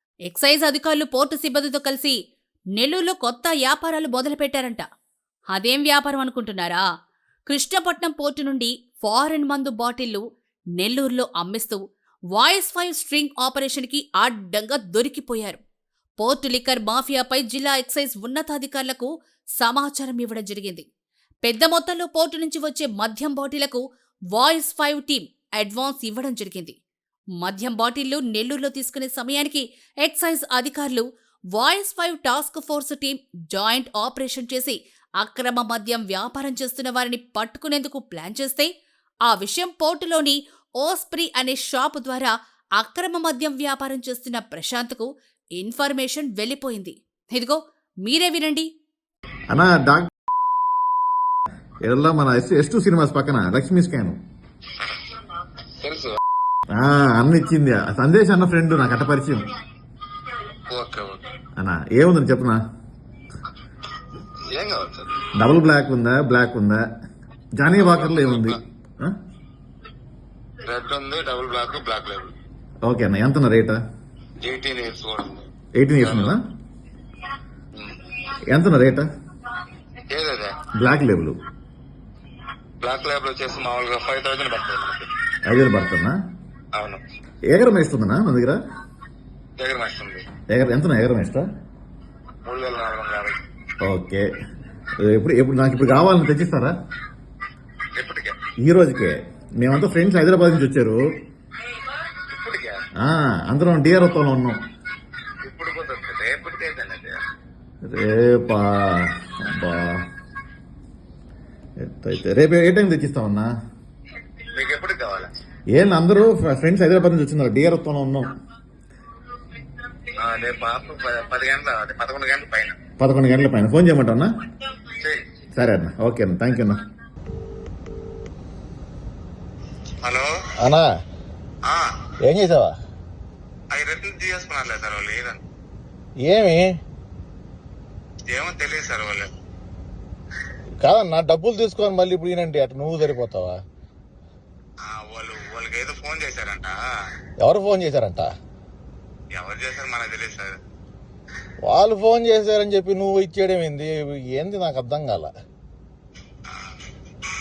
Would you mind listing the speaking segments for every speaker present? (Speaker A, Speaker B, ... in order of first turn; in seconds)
Speaker A: 0.3-2.1, 2.8-4.9, 5.5-6.8, 7.5-10.2, 10.8-11.8, 12.3-15.6, 16.2-20.9, 21.4-26.8, 27.4-38.7, 39.2-48.7
Speaker B: 49.5-50.1, 51.8-54.2, 56.8-59.5, 61.5-62.6, 65.3-66.8, 67.6-69.2, 72.8-73.8, 75.8-76.4, 78.5-79.1, 80.7-81.4, 85.4-86.2, 87.5-88.6, 90.5-91.5, 93.8-94.2, 95.0-96.7, 98.6-101.0, 103.0-104.6, 107.9-110.0, 111.8-113.5, 115.7-118.3, 123.0-124.4, 125.5-126.8, 130.6-130.9, 132.2-132.8, 136.2-136.7, 140.8-143.6, 147.4-148.3, 151.7-155.3
Speaker C: 55.8-56.2, 60.7-61.4, 64.5-65.3, 67.7-68.6, 70.7-72.3, 74.4-75.5, 76.0-76.4, 77.8-78.0, 80.1-80.7, 82.8-85.1, 86.8-87.0, 89.6-90.2, 92.4-93.4, 97.9-98.4, 102.2-102.8, 105.4-107.2, 114.5-115.3, 120.2-122.8, 124.8-125.2, 130.0-130.3, 133.7-135.4, 138.3-139.3, 144.8-146.8, 149.4-150.6, 156.5-156.8